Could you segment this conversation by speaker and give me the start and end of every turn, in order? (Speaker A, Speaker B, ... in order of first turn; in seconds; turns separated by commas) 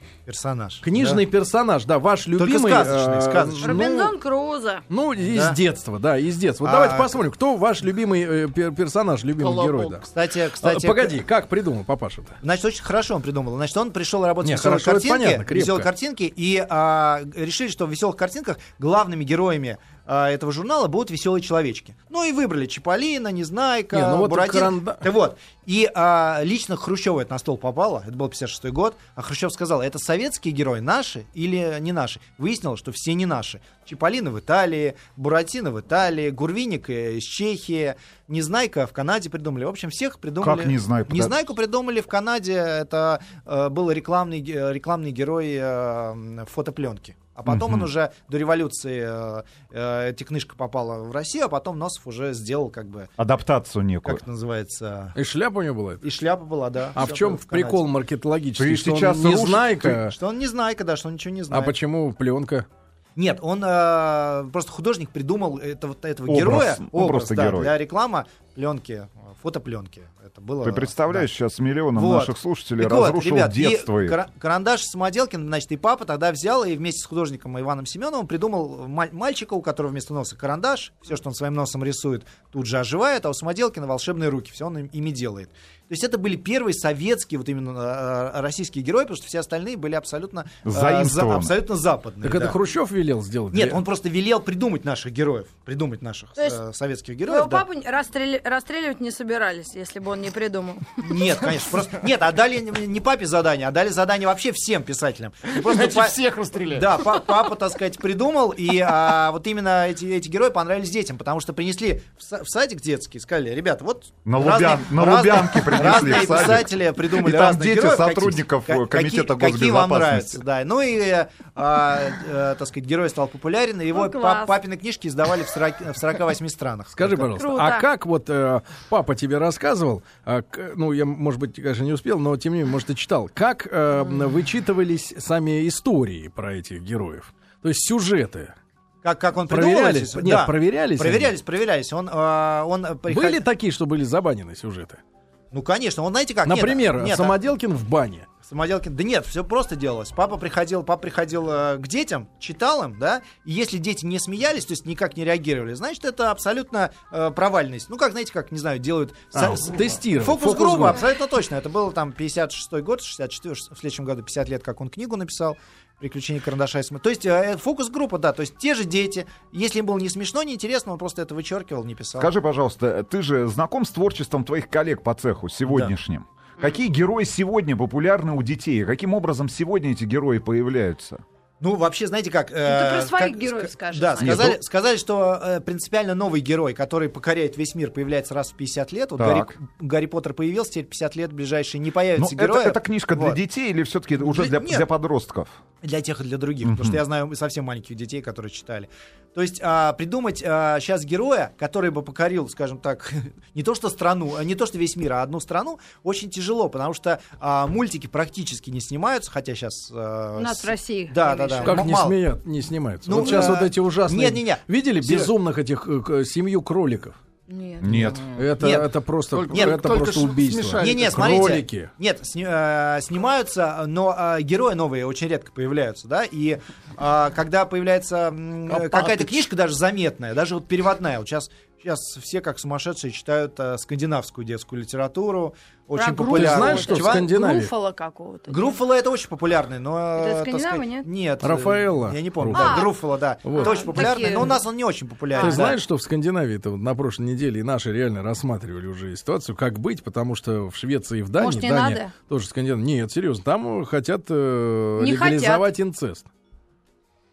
Speaker A: 0.3-1.2, Speaker B: 0.8-4.1, Speaker A: 2.4-3.9, Speaker C: 3.6-4.8, Speaker B: 4.9-10.1, Speaker A: 5.2-5.6, Speaker A: 6.6-7.2, Speaker D: 9.4-10.1, Speaker A: 10.1-11.2, Speaker B: 10.6-12.4, Speaker A: 12.4-53.1, Speaker B: 14.4-15.9, Speaker B: 23.9-25.1, Speaker E: 40.4-41.3, Speaker E: 47.5-47.9, Speaker E: 53.2-54.2, Speaker A: 54.0-55.2, Speaker B: 55.1-56.0, Speaker A: 56.0-57.8, Speaker B: 57.0-60.2, Speaker E: 58.6-60.0, Speaker A: 60.1-61.8, Speaker B: 61.5-62.7, Speaker A: 63.2-71.3, Speaker E: 66.3-67.7, Speaker E: 70.6-74.2, Speaker A: 72.0-92.6, Speaker E: 90.7-91.5, Speaker B: 92.2-93.8, Speaker A: 93.5-97.6, Speaker C: 97.3-101.5, Speaker A: 101.0-106.2, Speaker D: 105.5-107.3, Speaker A: 106.7-127.3, Speaker E: 114.2-120.4, Speaker C: 123.9-124.6, Speaker B: 127.0-138.5, Speaker C: 127.3-127.9, Speaker A: 139.0-143.4, Speaker B: 139.5-141.3, Speaker B: 143.1-145.0, Speaker A: 145.5-147.3, Speaker B: 146.4-148.3, Speaker A: 148.4-172.3, Speaker B: 159.3-161.0, Speaker E: 172.2-181.2, Speaker A: 181.6-193.4, Speaker C: 182.6-184.5, Speaker E: 184.2-184.6, Speaker E: 189.2-189.5, Speaker E: 192.2-195.6, Speaker A: 194.2-194.9, Speaker A: 195.8-212.2, Speaker E: 196.6-197.0, Speaker C: 210.4-211.9, Speaker B: 211.6-217.2, Speaker A: 213.1-215.3, Speaker C: 213.2-213.6, Speaker C: 217.5-218.2, Speaker E: 217.8-218.2, Speaker B: 218.4-221.9, Speaker A: 218.6-218.9, Speaker D: 219.3-221.5, Speaker A: 219.5-220.1, Speaker A: 220.8-237.3, Speaker C: 235.9-238.8, Speaker B: 236.3-237.7, Speaker A: 238.5-245.8, Speaker C: 240.2-241.1, Speaker B: 241.4-242.9, Speaker C: 242.5-242.9, Speaker B: 243.4-244.3, Speaker C: 243.6-244.6, Speaker C: 245.3-245.8, Speaker B: 245.4-256.3, Speaker C: 251.4-252.1, Speaker C: 255.0-255.7